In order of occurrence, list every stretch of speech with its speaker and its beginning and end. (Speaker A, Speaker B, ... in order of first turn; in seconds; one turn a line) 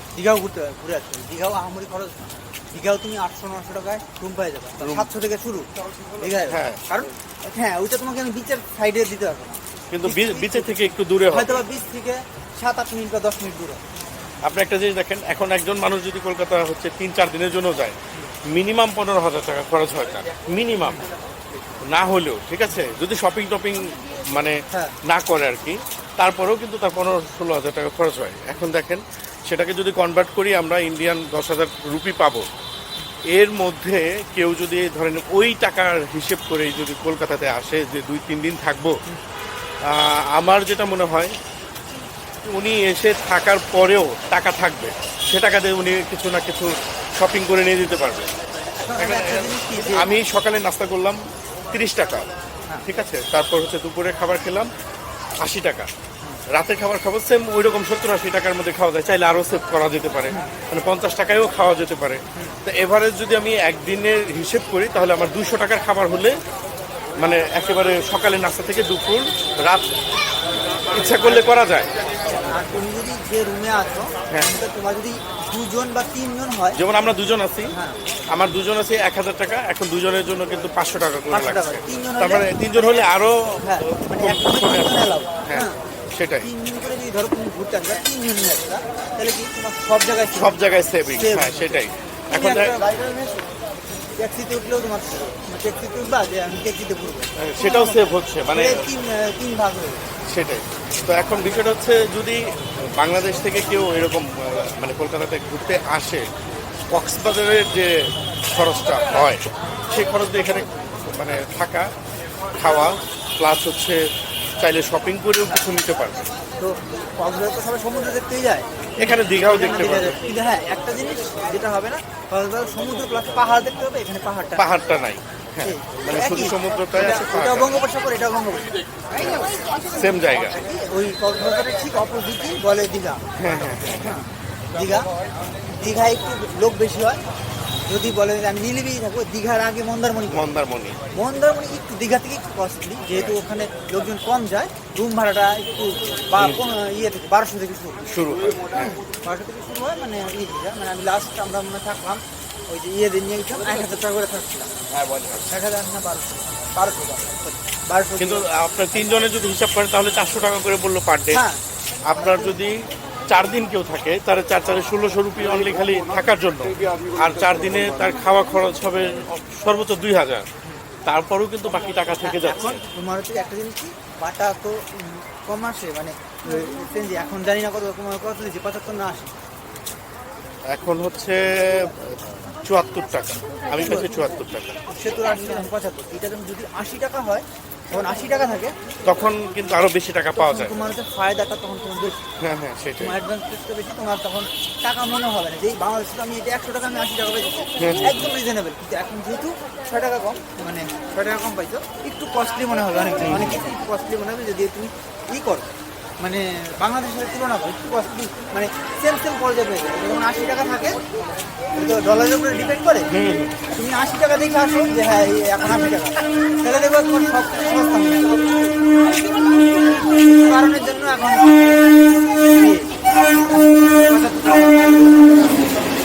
Speaker A: 0.2-13.8
Speaker B: 4.8-5.1
Speaker B: 6.5-6.8
Speaker B: 9.9-11.7
Speaker B: 14.4-18.0
Speaker B: 18.5-21.1
Speaker B: 21.9-32.5
Speaker A: 24.7-25.0
Speaker B: 33.3-39.0
Speaker B: 39.8-41.3
Speaker B: 42.5-48.3
Speaker A: 48.8-50.2
Speaker B: 49.0-52.3
Speaker B: 52.9-54.7
Speaker B: 55.4-55.9
Speaker B: 56.5-66.4
Speaker B: 67.2-69.9
Speaker B: 70.9-71.9
Speaker A: 71.2-71.5
Speaker A: 72.4-76.8
Speaker B: 76.8-77.7
Speaker A: 77.7-78.0
Speaker B: 78.3-86.5
Speaker A: 81.3-83.1
Speaker A: 83.6-85.8
Speaker A: 86.4-90.6
Speaker B: 90.3-92.7
Speaker A: 91.2-91.8
Speaker A: 92.3-93.5
Speaker A: 94.2-100.1
Speaker B: 97.4-98.8
Speaker B: 100.3-106.3
Speaker B: 106.9-111.9
Speaker B: 112.6-114.1
Speaker B: 114.6-116.2
Speaker A: 116.6-124.6
Speaker B: 119.0-120.2
Speaker B: 124.6-127.8
Speaker A: 125.6-129.4
Speaker B: 129.1-130.6
Speaker A: 130.6-133.2
Speaker B: 133.4-134.2
Speaker A: 133.9-135.1
Speaker A: 135.7-137.2
Speaker A: 137.9-140.5
Speaker B: 140.3-141.0
Speaker A: 141.1-148.0
Speaker B: 143.1-143.4
Speaker B: 148.1-149.0
Speaker A: 148.8-154.7
Speaker B: 154.9-155.5
Speaker A: 155.5-158.5
Speaker B: 158.2-161.4
Speaker A: 161.3-161.6
Speaker B: 162.1-170.5
Speaker A: 162.2-162.6
Speaker B: 171.1-172.8
Speaker A: 172.2-179.3
Speaker B: 180.7-184.8
Speaker A: 183.7-184.3
Speaker A: 184.9-188.7
Speaker B: 189.1-190.7
Speaker A: 190.4-192.2
Speaker B: 192.4-193.2
Speaker A: 193.0-205.7
Speaker B: 197.8-198.3
Speaker B: 203.2-203.6
Speaker A: 206.2-211.0
Speaker A: 211.8-213.1
Speaker B: 213.1-213.6
Speaker A: 213.7-218.4
Speaker A: 220.1-221.4
Speaker A: 222.5-222.9
Speaker A: 224.1-225.7